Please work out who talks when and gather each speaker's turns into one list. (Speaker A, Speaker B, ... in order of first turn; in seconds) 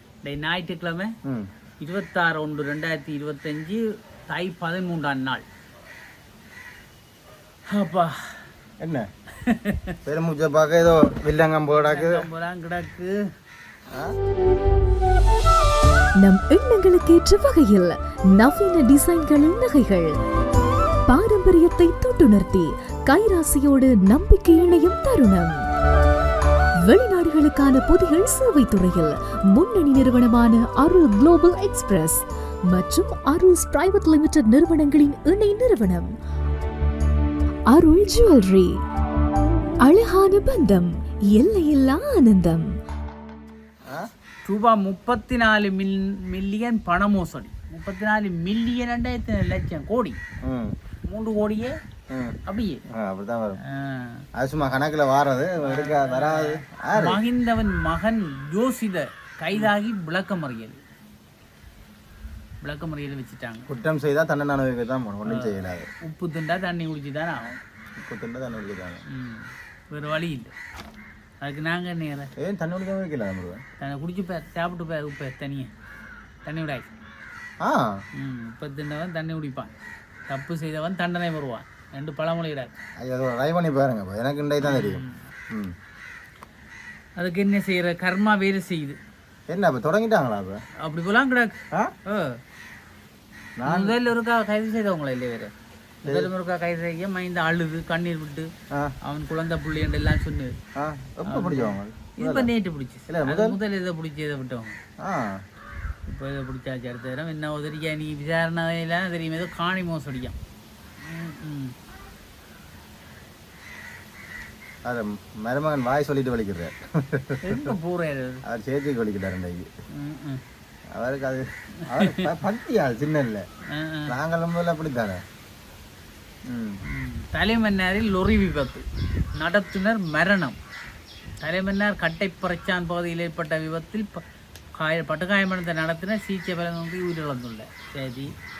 Speaker A: 0.2-1.1, 1.8-5.4, 7.7-8.4, 9.4-9.9, 11.7-13.2, 44.4-50.2, 51.1-51.7, 52.5-52.8, 53.6-54.2, 55.6-60.8, 62.6-63.7, 65.3-67.6, 69.1-70.5, 71.4-72.3, 73.8-75.7, 76.4-76.9, 78.2-79.7, 80.3-82.7, 84.6-85.2, 87.2-89.0, 90.8-92.4, 93.7-95.5, 96.0-98.5, 99.0-100.5, 101.3-104.8, 106.1-110.3, 111.0-111.7, 117.4-118.4, 119.9-120.4, 121.9-122.3, 123.7-124.1, 126.8-128.8, 129.4-130.6, 131.4-134.2, 134.8-138.3
Speaker B: 8.8-9.1, 10.0-12.3, 50.4-50.7, 52.9-53.6, 54.4-57.2, 63.7-65.9, 68.0-69.0, 72.4-73.6, 77.6-78.0, 83.0-85.7, 89.5-90.6, 93.6-94.0, 100.8-102.5, 103.1-103.6, 105.0-105.4, 114.8-117.7, 118.5-119.7, 120.9-123.4, 124.1-125.2, 126.5-126.8
Speaker C: 16.2-20.1, 21.1-25.6, 26.9-36.1, 37.7-38.8, 39.8-42.7